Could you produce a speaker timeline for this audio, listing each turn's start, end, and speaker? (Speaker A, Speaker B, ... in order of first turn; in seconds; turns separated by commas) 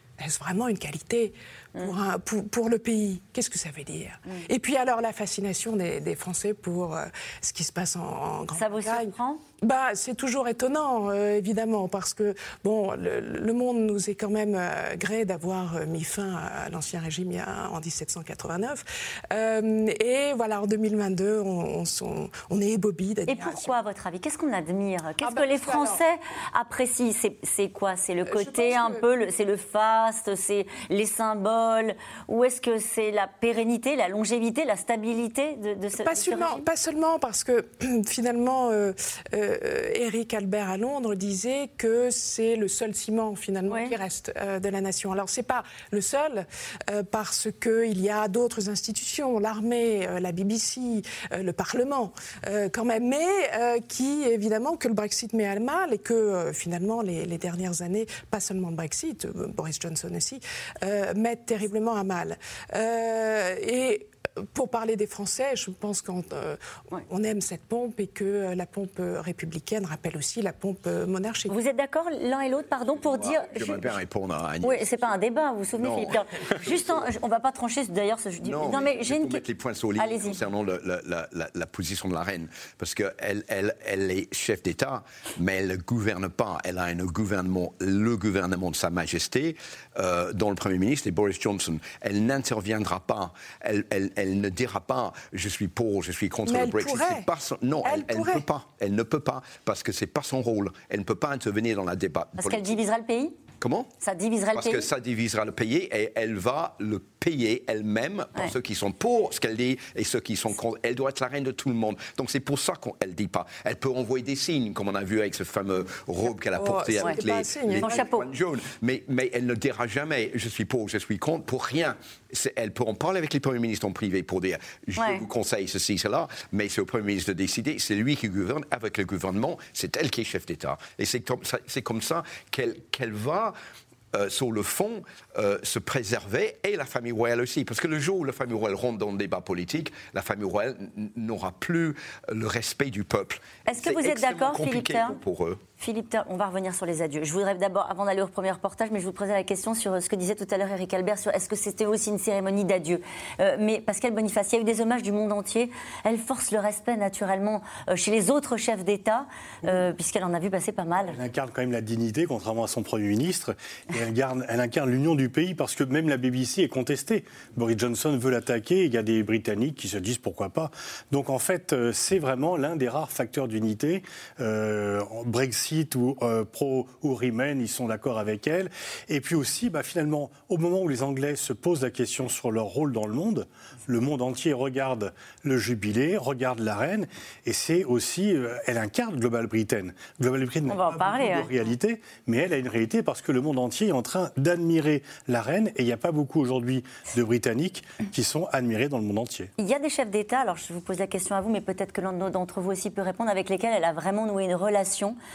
Speaker A: 0.2-23.7, Speaker B: 8.5-9.4, Speaker B: 23.2-36.7, Speaker A: 25.2-26.0, Speaker A: 28.2-29.0, Speaker A: 36.0-71.5, Speaker B: 43.7-44.0, Speaker B: 71.5-74.0, Speaker C: 73.0-75.0, Speaker B: 74.6-79.4, Speaker C: 75.8-77.1, Speaker C: 78.4-102.8, Speaker B: 80.0-80.4, Speaker A: 96.5-97.3, Speaker A: 97.8-98.5, Speaker B: 102.4-103.3, Speaker C: 103.6-103.9, Speaker B: 104.0-104.9, Speaker C: 104.5-133.5, Speaker A: 116.5-118.0, Speaker B: 117.8-118.3, Speaker B: 125.0-125.2, Speaker C: 134.1-145.6, Speaker B: 143.7-145.2, Speaker B: 145.8-161.2, Speaker D: 161.0-199.5, Speaker B: 190.7-191.5, Speaker B: 199.6-205.2